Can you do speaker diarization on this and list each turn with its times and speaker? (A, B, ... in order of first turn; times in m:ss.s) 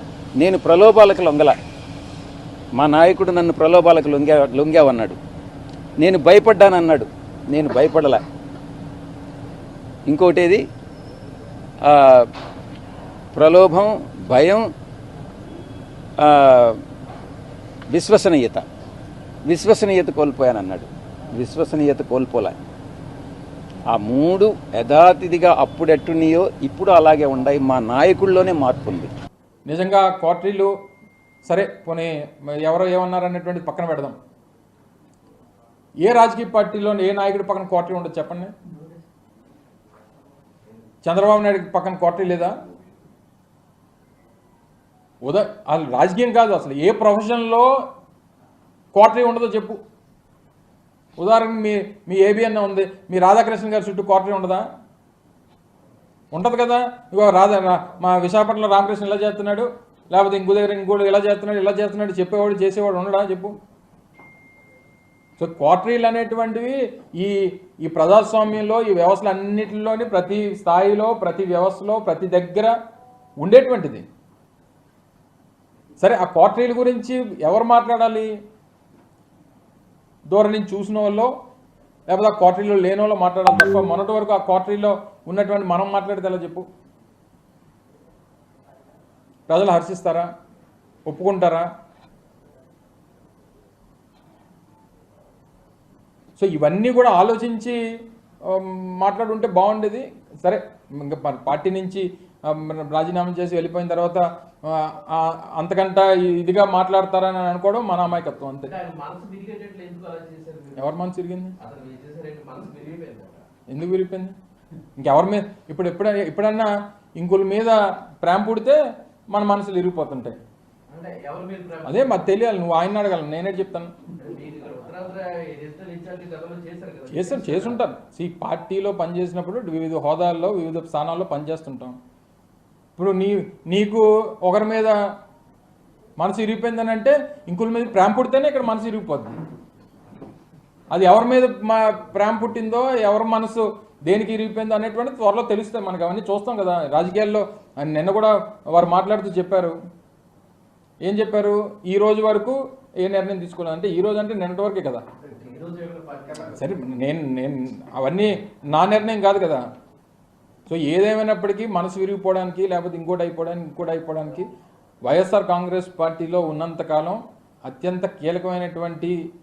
0:00.4-0:01.6 A
0:02.8-0:05.2 A
0:06.0-0:08.2 A
0:10.1-0:10.7 A
0:11.8-0:12.3 A
0:13.3-0:14.7 A
0:16.2-0:16.8 A
0:17.9-0:18.7 A
0:19.5-0:22.6 A
0:23.9-0:29.1 A
0:29.7-0:30.7 B
0:31.4-0:34.2 B
0:36.0-0:38.6 B
0:41.0-0:42.6 B
0:45.2-0:47.7 B
0:48.9-0:49.8 B
0:51.2-0:54.7 B
0:56.3-1:03.6 B
1:05.4-1:12.7 B
1:13.4-1:14.0 B
1:16.0-1:18.3 B
1:20.3-1:21.3 B
1:22.1-1:26.7 B
1:29.5-1:30.3 B
1:31.1-1:31.7 B
1:36.4-1:37.8 B
1:38.5-1:48.7 B
1:48.7-1:51.0 C
1:50.8-1:51.6 B
1:51.6-1:53.4 C
1:53.7-1:54.3 B
1:55.0-1:58.8 B
1:59.3-2:00.4 B
2:00.9-2:02.3 C
2:01.9-2:03.9 B
2:04.2-2:07.8 C
2:07.1-2:12.0 B
2:13.0-2:15.0 B
2:16.2-2:19.4 B
2:20.9-2:29.8 B
2:31.0-2:35.0 B
2:35.3-2:36.6 C
2:36.5-2:39.6 B
2:40.7-2:44.5 B
2:45.1-2:49.2 B